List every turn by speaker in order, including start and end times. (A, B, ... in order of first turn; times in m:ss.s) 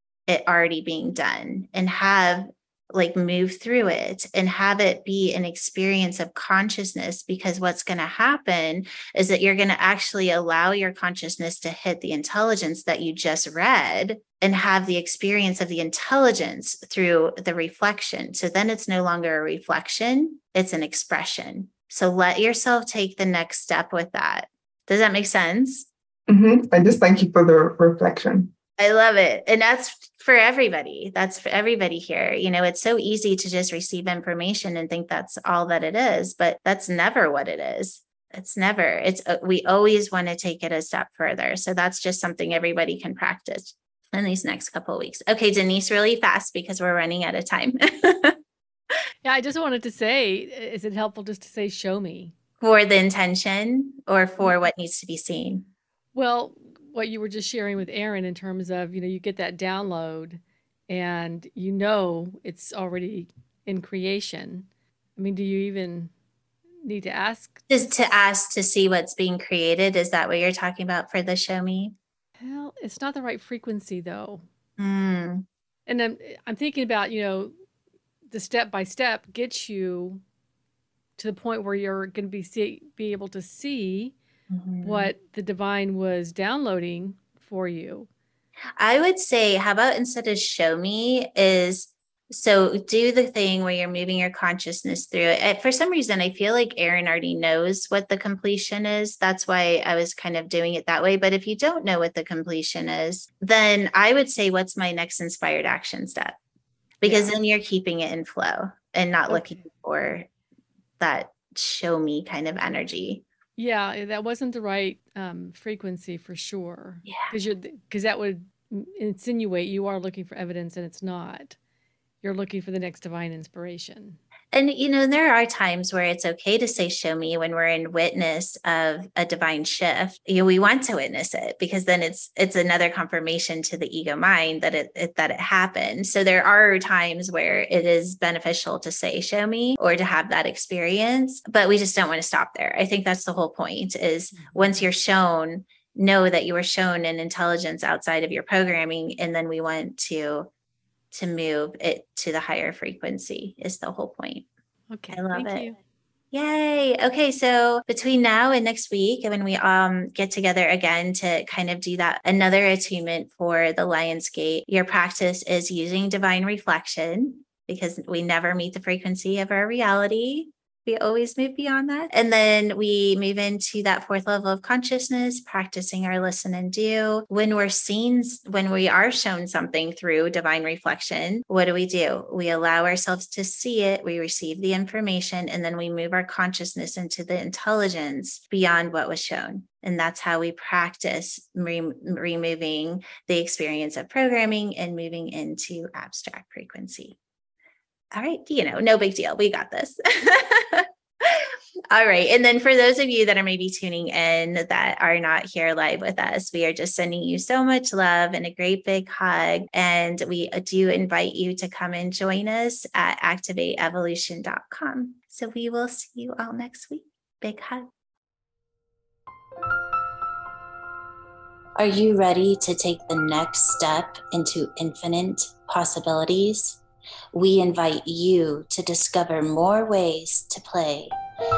0:00.3-0:25.9 A
0:26.3-0:28.5 B
0:28.8-0:48.4 A
0:49.2-0:52.3 C
0:52.6-0:55.7 A
0:56.1-1:06.1 C
1:06.8-1:07.6 C
1:07.7-1:11.9 A
1:12.4-1:14.5 C
1:14.8-1:15.4 A
1:15.9-1:17.5 C
1:18.3-1:20.2 C
1:21.2-1:24.2 C
1:24.5-1:25.1 A
1:24.8-1:28.1 C
1:28.8-1:46.4 A
1:47.0-1:50.3 A
1:47.0-1:47.3 C
1:49.3-1:49.6 C
1:51.0-1:53.2 A
1:53.6-2:01.6 C
1:57.0-1:57.3 A
2:02.2-2:04.2 C
2:04.5-2:30.5 A
2:31.1-2:34.4 A
2:34.9-2:35.8 C
2:35.1-2:35.7 A
2:36.3-3:17.2 A
3:18.1-3:37.9 A
3:41.8-3:46.8 A
3:47.3-3:51.2 A